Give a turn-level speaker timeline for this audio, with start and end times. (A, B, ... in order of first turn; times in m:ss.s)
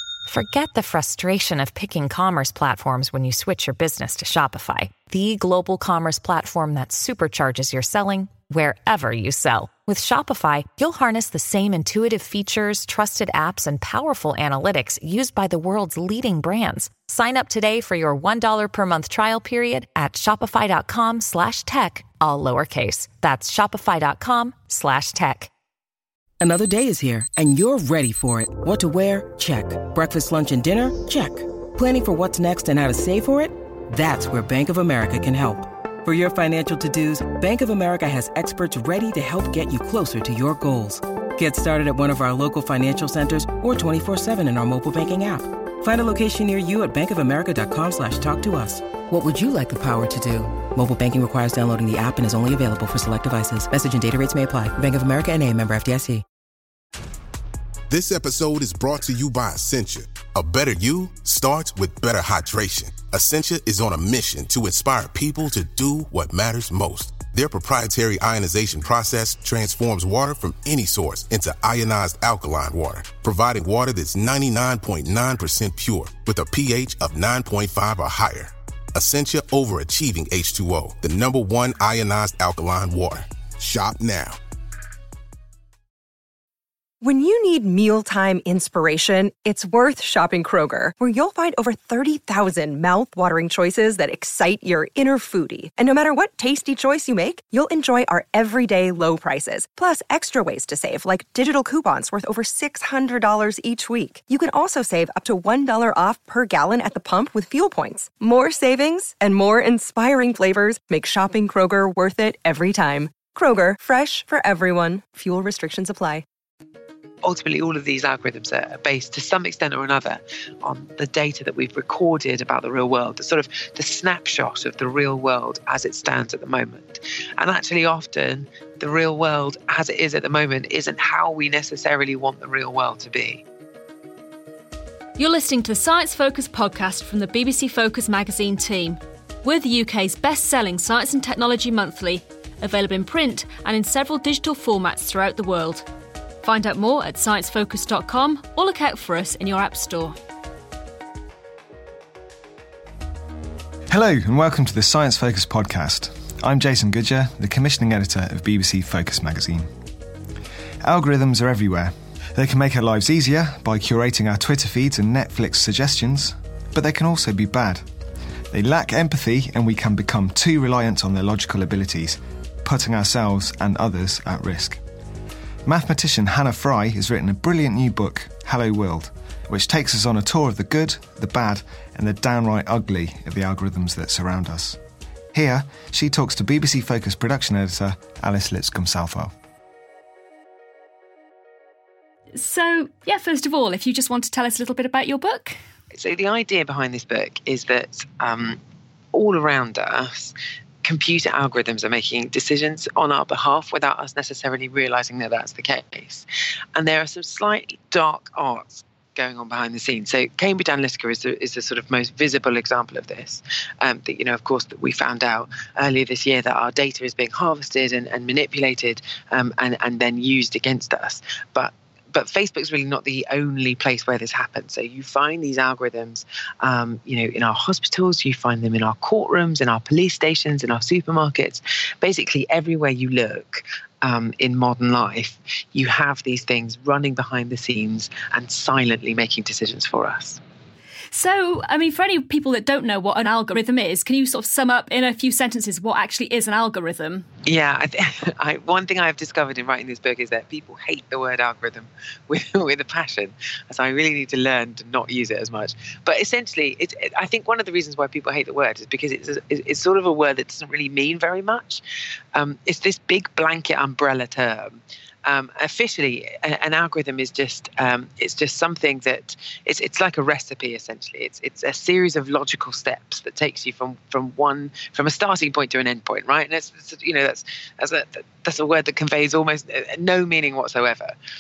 0:00.3-0:25.5 A
0:26.4-0:56.2 B
0:57.9-1:24.4 C
1:27.0-1:56.2 D
1:57.2-2:13.4 E
2:15.2-2:25.8 F
2:26.4-2:30.2 F
2:33.9-2:39.7 G
2:40.8-2:47.8 G
2:48.5-2:54.8 G
2:55.6-3:04.8 G
3:05.3-3:09.3 G
3:12.3-3:15.6 F
3:15.9-3:18.6 E
3:19.1-4:00.4 E
4:01.1-4:07.3 F
4:07.4-4:21.8 E
4:22.3-4:41.1 E